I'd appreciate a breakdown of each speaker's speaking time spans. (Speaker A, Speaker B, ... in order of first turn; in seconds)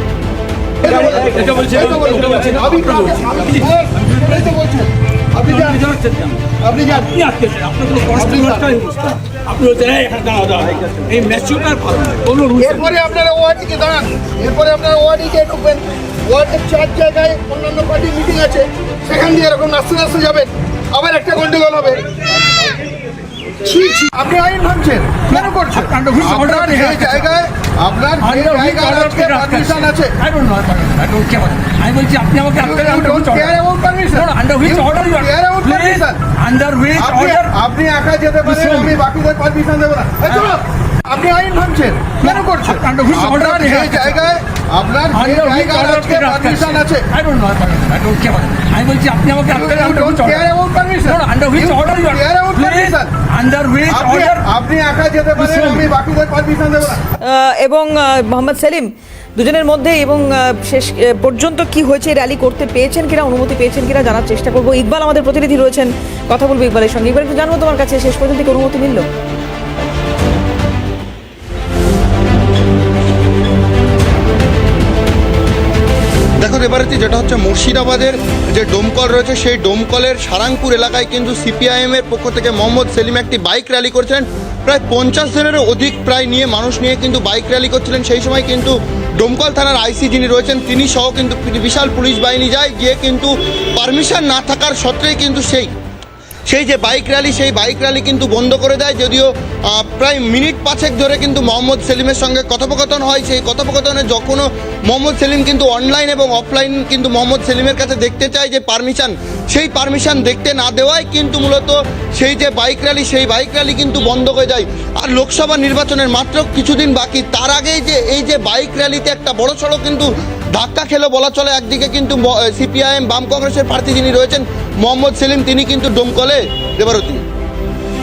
Speaker A: 0.8-5.8, 6.6-7.1, 8.1-8.7, 12.6-22.0, 23.6-30.1, 32.6-36.2, 37.0-47.1, 49.5-53.1, 53.9-57.0
Speaker B: 0.8-4.6, 5.4-13.0, 25.3-27.3, 28.2-33.6, 34.1-37.5, 38.4-39.0, 40.3-40.6, 42.2-44.3, 45.1-50.5, 51.0-54.4, 55.4-55.9
Speaker C: 57.2-69.1
Speaker D: 76.4-95.7, 96.5-127.2